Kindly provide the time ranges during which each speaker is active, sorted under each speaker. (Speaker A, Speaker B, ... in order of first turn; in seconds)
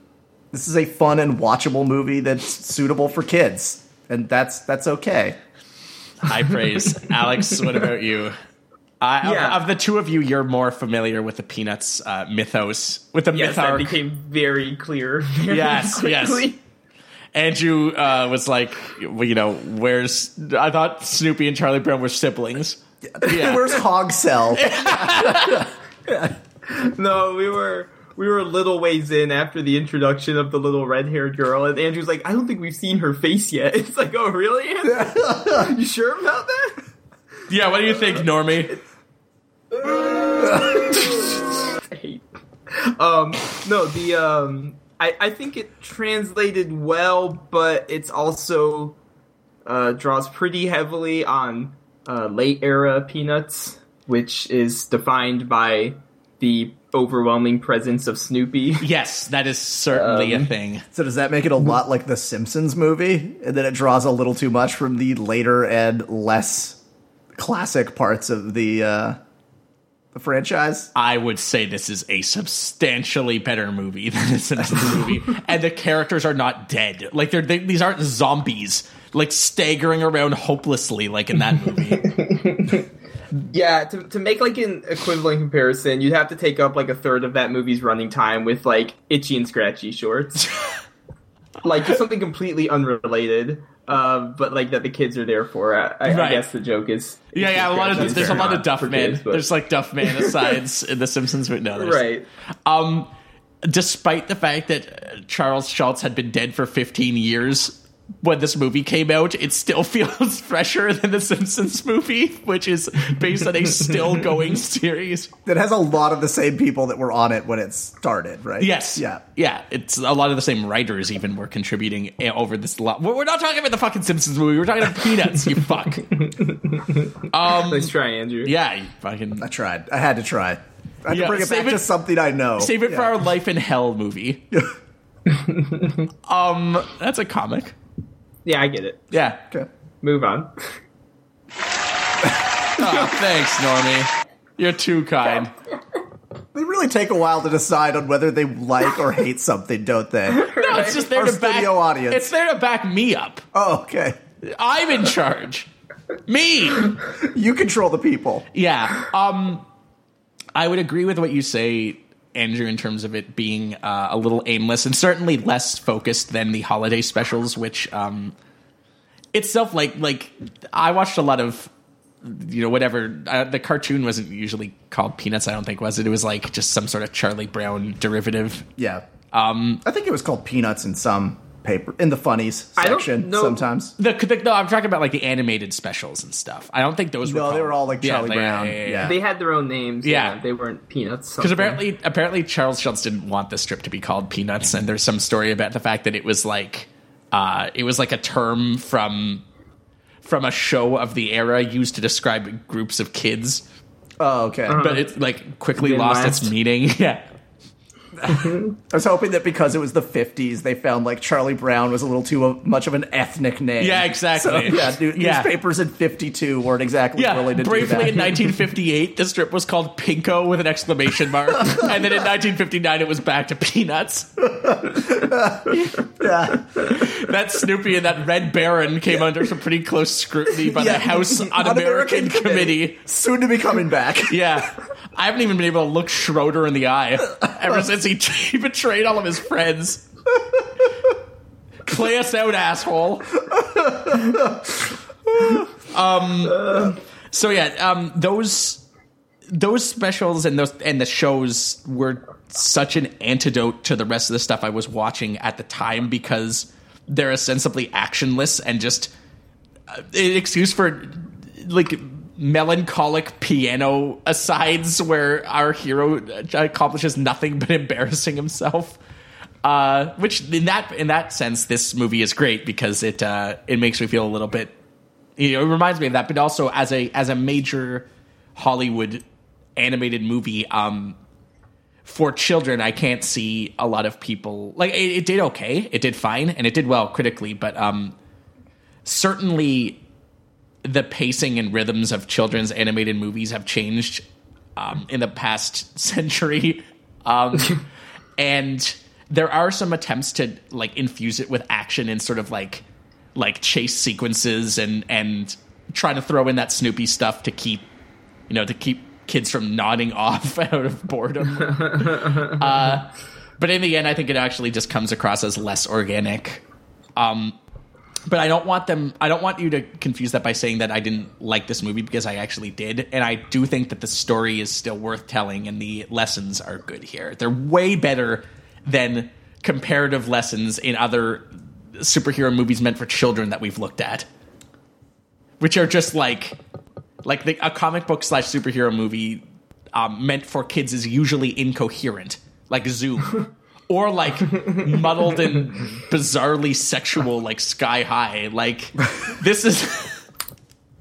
Speaker A: 0.5-5.4, 23.1-25.7, 34.9-35.7, 60.9-66.8, 67.4-69.2, 70.1-70.9, 97.9-98.6, 115.5-119.2, 129.4-133.1, 146.5-152.2, 153.5-154.2, 157.2-158.5, 178.8-179.0, 179.8-183.9, 187.2-189.2, 204.2-204.8, 208.9-218.4, 221.7-221.9, 224.4-226.9, 230.7-234.5, 243.5-244.7
Speaker B: 6.2-8.4, 9.0-13.9, 15.5-16.5, 17.3-23.8, 24.5-25.7, 37.5-38.8, 58.8-60.8, 71.0-82.1, 96.1-96.5, 97.3-102.0, 102.7-103.1, 103.6-115.3, 118.6-126.1, 127.3-127.9, 128.4-129.5, 131.1-131.9, 132.6-134.4, 136.2-137.8, 139.1-139.4, 142.8-145.5, 150.5-153.4, 154.4-155.7, 156.3-157.0, 158.5-159.7, 160.6-168.3, 169.3-171.7, 172.2-178.7, 179.3-179.8, 184.0-189.2, 190.0-190.4, 191.4-199.4, 200.2-203.6, 204.7-207.3, 213.8-215.5, 217.2-224.4, 226.7-233.0, 234.3-240.1, 241.8-243.3, 245.5-248.8, 249.5-259.1, 259.9-269.0, 269.6-274.7, 275.4-279.2, 279.8-281.2, 282.1-288.2, 289.1-290.0, 290.8-294.2, 294.8-297.8, 298.4-302.8, 303.4-307.9, 308.5-316.6, 317.2-317.6, 318.3-334.3, 335.6-336.6, 337.2-339.4, 339.9-350.2
Speaker C: 9.2-9.7, 13.3-16.6, 26.6-36.8, 39.7-49.0, 49.6-58.9, 59.9-60.5, 82.0-82.8, 83.4-90.5, 91.6-99.5, 100.0-100.5, 101.8-102.3, 126.1-128.5, 138.4-139.0, 140.0-140.7, 150.3-151.1, 182.8-183.6, 189.0-191.8, 204.7-205.1, 205.8-206.5, 208.3-208.6, 311.8-312.6